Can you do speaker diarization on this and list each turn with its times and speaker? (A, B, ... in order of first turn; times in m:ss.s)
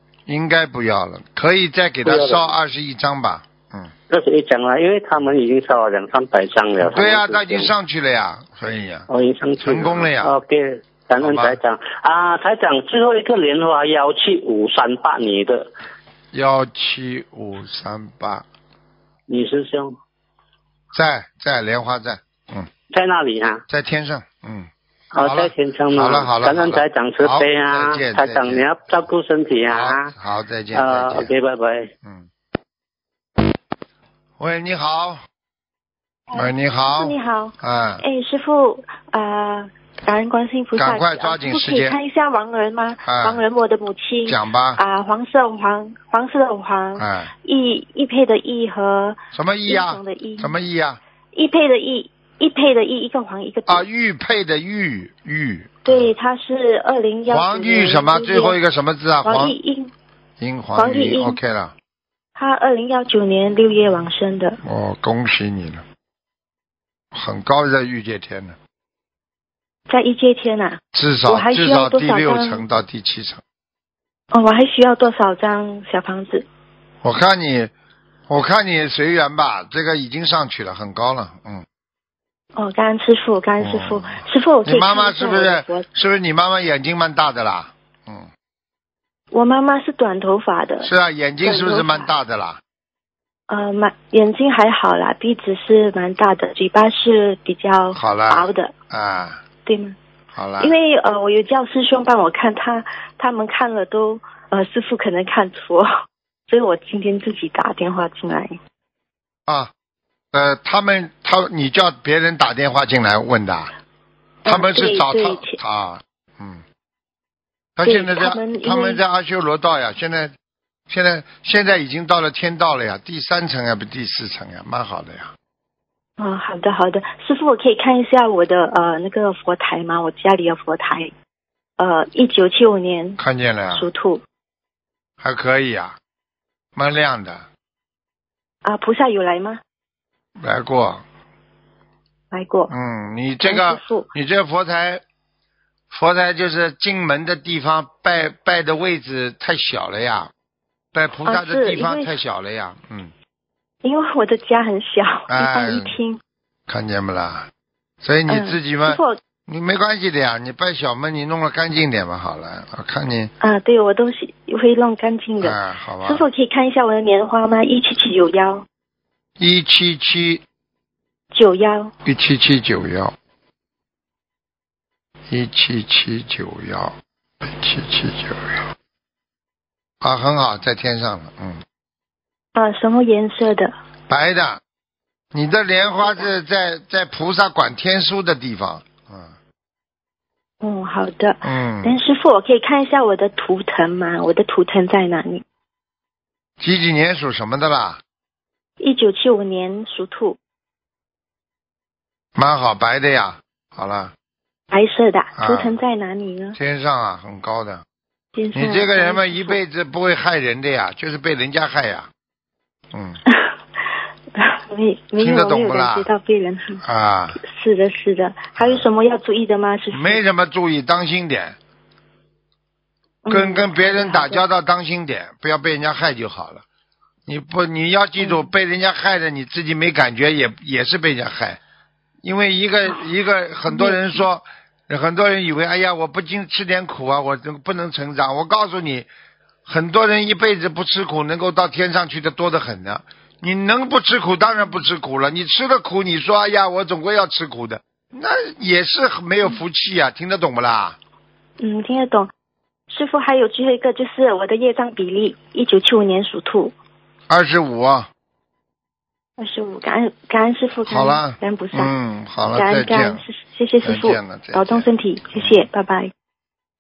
0:00.3-0:03.9 A
0:02.0-0:02.5 B
0:04.1-0:07.7 B
0:06.8-0:09.1 A
0:09.1-0:15.7 B
0:09.6-0:10.3 A
0:11.2-0:11.6 A
0:16.3-0:18.5 A
0:19.3-0:19.9 B
0:20.9-0:22.7 A
0:22.9-0:23.6 B
0:23.7-0:24.7 A
0:25.1-0:30.1 B
0:25.2-0:28.7 A
0:29.7-0:31.3 A
0:30.8-0:31.9 B
0:34.4-0:35.2 A
0:36.3-0:50.5 C
0:36.3-0:38.0 A
0:40.8-0:42.0 A
0:43.1-0:43.4 A
0:44.3-0:44.8 A
0:47.0-0:47.3 A
0:49.3-0:51.0 A
0:51.3-0:53.9 C
0:53.7-0:56.1 A
0:55.9-0:58.6 C
0:57.3-0:59.6 A
0:59.2-0:59.9 C
1:00.4-1:01.7 A
1:00.8-1:01.4 C
1:02.4-1:04.6 C
1:04.6-1:05.8 A
1:07.1-1:08.6 A
1:09.9-1:12.6 C
1:10.9-1:13.4 A
1:14.3-1:16.4 C
1:17.0-1:17.7 A
1:18.3-1:21.6 A
1:22.6-1:25.8 C
1:23.6-1:28.3 A
1:29.3-1:30.9 C
1:30.8-1:32.6 A
1:31.4-1:32.1 C
1:33.5-1:38.7 C
1:37.9-1:39.4 A
1:39.6-1:40.0 C
1:40.4-1:40.7 A
1:40.6-1:45.9 C
1:46.5-1:48.6 C
1:50.3-1:53.7 A
1:54.4-1:56.6 A
1:54.5-1:55.6 C
1:57.8-2:00.3 A
1:57.8-1:59.0 C
2:00.9-2:05.3 A
2:06.2-2:11.1 C
2:11.8-2:13.2 C
2:13.2-2:13.9 A
2:13.7-2:14.2 C
2:15.2-2:16.0 A
2:16.8-2:17.5 A
2:18.6-2:19.6 C
2:20.4-2:21.0 A
2:22.3-2:22.7 C
2:22.7-2:25.0 A
2:23.4-2:24.1 C
2:25.9-2:30.3 A
2:30.9-2:33.1 A
2:31.3-2:32.1 C
2:33.8-2:36.2 C
2:35.3-2:36.0 A
2:36.7-2:37.5 A
2:38.0-2:43.3 A
2:38.3-2:39.2 C
2:43.4-2:48.7 C
2:45.4-2:46.3 A
2:49.4-2:50.4 A
2:51.3-2:51.9 C
2:52.0-2:53.1 A
2:55.3-2:58.7 A
3:00.0-3:01.6 A
3:02.6-3:03.7 C
3:04.1-3:04.6 A
3:05.3-3:09.3 A
3:10.6-3:15.4 C
3:11.4-3:12.0 A
3:16.6-3:18.0 A
3:18.8-3:20.4 C
3:22.4-3:24.1 A
3:24.7-3:26.6 C
3:25.4-3:25.8 A
3:26.5-3:27.8 A
3:28.4-3:29.6 C
3:28.5-3:32.1 A
3:32.9-3:33.2 A
3:33.3-3:33.6 C
3:34.4-3:36.8 C
3:35.2-3:36.1 A
3:36.8-3:37.4 A
3:37.4-3:40.2 C
3:38.6-3:38.9 A
3:39.9-3:41.6 A
3:43.2-3:44.4 C
3:43.3-3:46.6 A
3:47.3-3:51.6 A
3:48.2-3:48.5 C
3:52.2-3:59.1 A
3:53.7-3:54.2 C
3:59.6-4:11.0 A
4:11.6-4:12.3 C
4:12.9-4:16.7 C
4:17.3-4:18.1 A
4:19.4-4:21.9 C
4:20.9-4:23.2 A
4:22.5-4:26.1 C
4:23.8-4:25.7 A